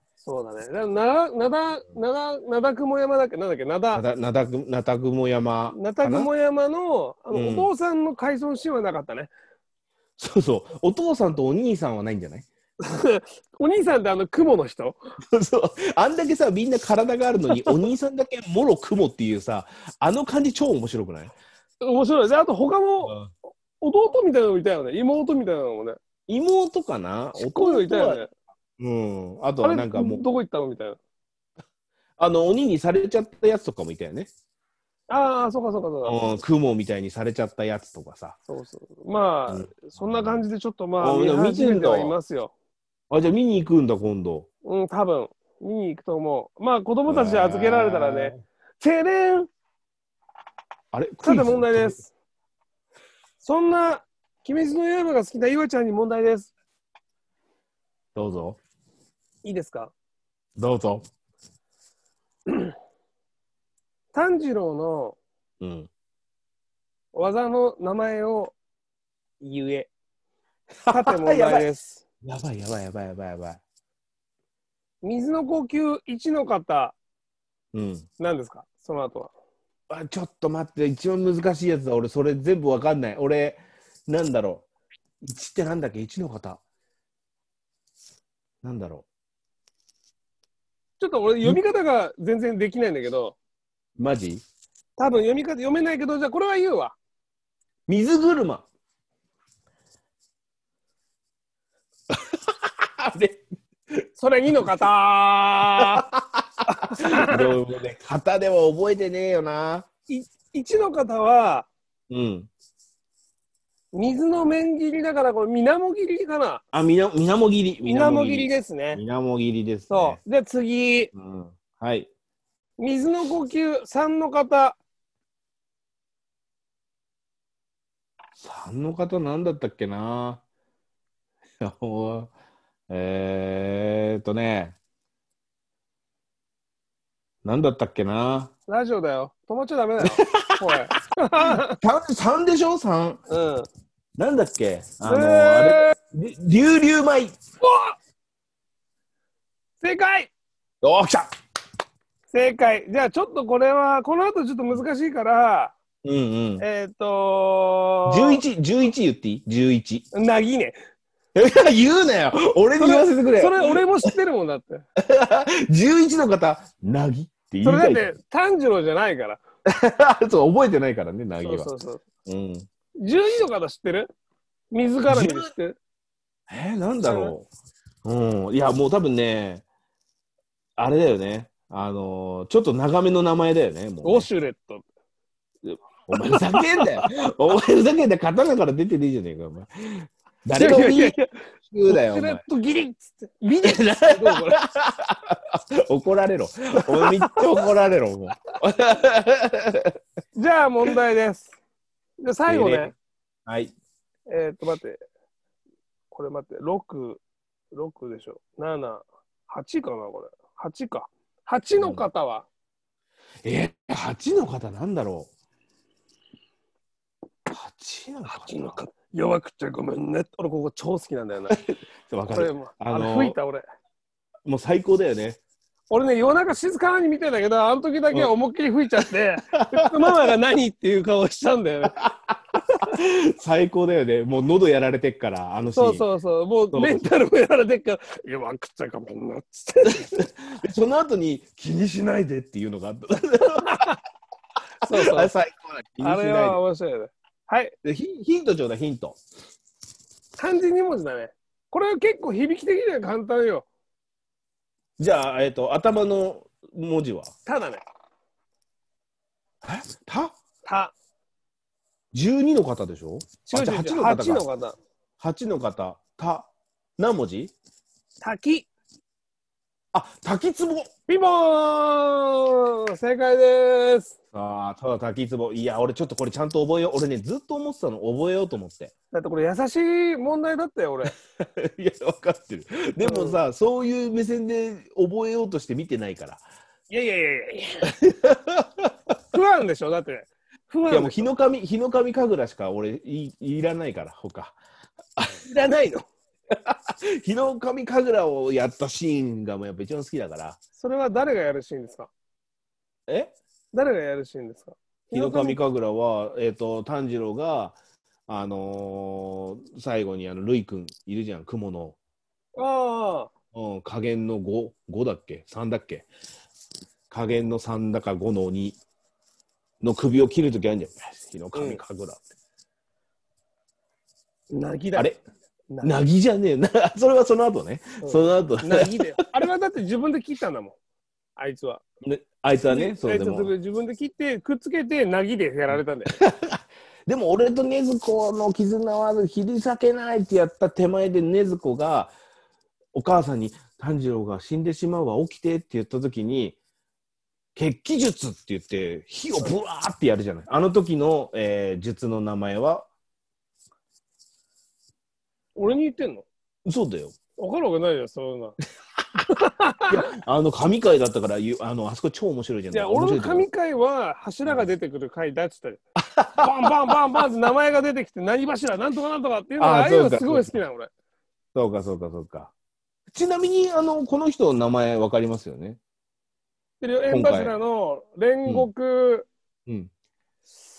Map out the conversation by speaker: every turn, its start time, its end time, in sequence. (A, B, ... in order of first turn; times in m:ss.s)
0:00.2-0:04.0 A
0:03.9-0:06.3 B
0:05.7-0:09.3 A
0:07.3-0:07.7 B
0:10.2-0:12.5 B
0:12.8-0:15.0 A
0:15.3-0:21.4 B
0:17.5-0:17.8 A
0:21.8-0:23.2 A
0:23.0-0:23.3 B
0:23.8-0:26.0 A
0:26.3-0:28.2 B
0:27.4-0:28.3 A
0:28.8-0:30.2 B
0:29.6-0:31.0 A
0:32.2-0:34.3 B
0:35.1-0:36.3 A
0:36.0-0:38.4 B
0:38.5-0:42.5 A
0:39.5-0:40.5 B
0:41.0-0:42.2 B
0:43.1-0:44.5 B
0:44.6-0:49.5 A
0:47.1-0:48.4 B
0:50.9-0:52.0 B
0:51.2-0:52.1 A
0:53.4-0:56.5 A
0:58.2-0:58.6 B
0:59.4-0:59.9 A
1:00.6-1:01.0 B
1:04.1-1:05.2 A
1:05.6-1:05.9 B
1:07.1-1:08.5 A
1:09.4-1:09.9 A
1:10.9-1:11.7 B
1:10.9-1:12.0 A
1:12.2-1:13.6 B
1:15.0-1:17.0 A
1:17.7-1:18.1 B
1:18.2-1:19.3 A
1:19.9-1:24.6 B
1:25.2-1:26.6 B
1:28.6-1:29.1 B
1:31.0-1:33.4 A
1:34.0-1:34.4 B
1:35.0-1:37.0 A
1:37.9-1:38.7 B
1:42.1-1:43.4 B
1:44.0-1:44.7 B
1:44.2-1:46.0 A
1:45.8-1:46.4 B
1:46.7-1:47.5 A
1:47.0-1:49.9 B
1:50.1-1:51.7 A
1:52.1-1:52.5 B
1:53.9-1:56.6 A
1:56.7-2:00.2 B
1:57.8-1:59.0 A
1:59.9-2:01.1 A
2:01.1-2:02.1 B
2:02.8-2:04.8 A
2:08.4-2:10.4 B
2:11.6-2:12.3 B
2:12.9-2:14.8 B
2:17.4-2:18.5 B
2:18.7-2:21.8 A
2:20.0-2:20.7 B
2:21.4-2:23.2 B
2:23.3-2:23.7 A
2:24.2-2:27.4 B
2:25.1-2:25.9 A
2:27.6-2:28.0 A
2:29.8-2:30.3 A
2:30.8-2:31.3 B
2:32.3-2:35.7 A
2:36.0-2:36.6 B
2:36.6-2:38.4 A
2:38.1-2:40.1 B
2:40.1-2:40.8 A
2:41.4-2:44.1 B
2:42.8-2:44.8 A
2:45.0-2:48.1 B
2:47.6-2:49.4 A
2:49.7-2:51.7 B
2:51.4-2:52.0 A
2:52.3-2:52.7 B
2:53.0-2:54.1 A
2:54.7-2:55.8 A
2:55.1-2:55.5 B
2:56.5-2:57.5 B
2:57.0-2:57.3 A
2:58.0-2:59.6 B
3:00.8-3:04.3 B
3:04.0-3:04.8 A
3:05.6-3:12.4 B
3:06.2-3:07.1 A
3:10.6-3:11.3 A
3:11.9-3:14.6 A
3:13.5-3:19.9 B
3:17.0-3:17.5 A
3:20.4-3:21.6 A
3:22.2-3:22.9 A
3:22.5-3:22.9 B
3:23.5-3:23.7 B
3:24.3-3:25.0 A
3:26.1-3:27.2 A
3:27.7-3:32.5 A
3:31.8-3:32.0 B
3:33.4-3:35.3 B
3:37.5-3:38.8 B
3:38.3-3:41.6 A
3:41.5-3:43.4 B
3:42.3-3:43.6 A
3:44.5-3:45.4 B
3:45.9-3:52.0 A
3:49.5-3:50.3 B
3:52.0-3:52.4 B
3:52.9-3:56.0 B
3:55.7-4:00.2 A
3:56.7-3:57.1 B
3:59.9-4:03.9 B
4:03.6-4:04.0 A
4:04.8-4:05.3 A
4:04.9-4:06.6 B
4:06.0-4:07.7 A
4:07.8-4:09.2 B
4:10.4-4:13.6 A
4:15.0-4:17.3 B
4:17.5-4:17.8 A
4:19.6-4:20.4 B
4:20.6-4:20.9 A
4:22.1-4:24.4 B
4:23.5-4:24.8 A
4:25.2-4:27.5 B
4:28.2-4:28.7 A
4:29.9-4:30.9 B
4:31.1-4:34.2 A
4:34.3-4:38.9 B
4:39.1-4:41.1 A
4:41.4-4:46.4 B
4:43.0-4:43.4 A
4:46.9-4:47.9 A
4:47.9-4:48.9 B
4:49.3-4:51.3 A
4:50.9-4:54.6 B
4:55.4-4:56.0 A
4:56.5-5:00.6 B
5:00.8-5:02.1 A
5:03.1-5:03.4 B
5:03.7-5:05.6 A
5:05.1-5:07.8 B
5:08.3-5:12.0 B
5:12.6-5:13.3 A
5:13.5-5:16.1 B
5:17.1-5:18.8 B
5:19.8-5:22.2 B
5:21.6-5:21.8 A
5:24.5-5:25.1 A
5:25.0-5:25.2 B
5:25.7-5:26.0 A
5:25.8-5:29.0 B
5:28.0-5:30.8 A
5:31.4-5:31.8 A
5:32.0-5:33.5 B
5:32.7-5:36.1 A
5:35.7-5:42.1 B
5:42.9-5:46.6 B
5:47.6-5:52.9 B
5:55.6-5:56.3 A
5:56.7-5:57.2 B
5:57.4-5:58.6 A
5:59.3-6:00.0 A
5:59.9-6:03.5 B
6:02.7-6:05.8 A
6:04.5-6:04.7 B
6:06.0-6:06.9 B
6:06.4-6:10.9 A
6:09.6-6:10.6 B
6:11.6-6:12.5 B
6:13.1-6:15.8 B
6:16.8-6:19.3 A
6:17.1-6:17.6 B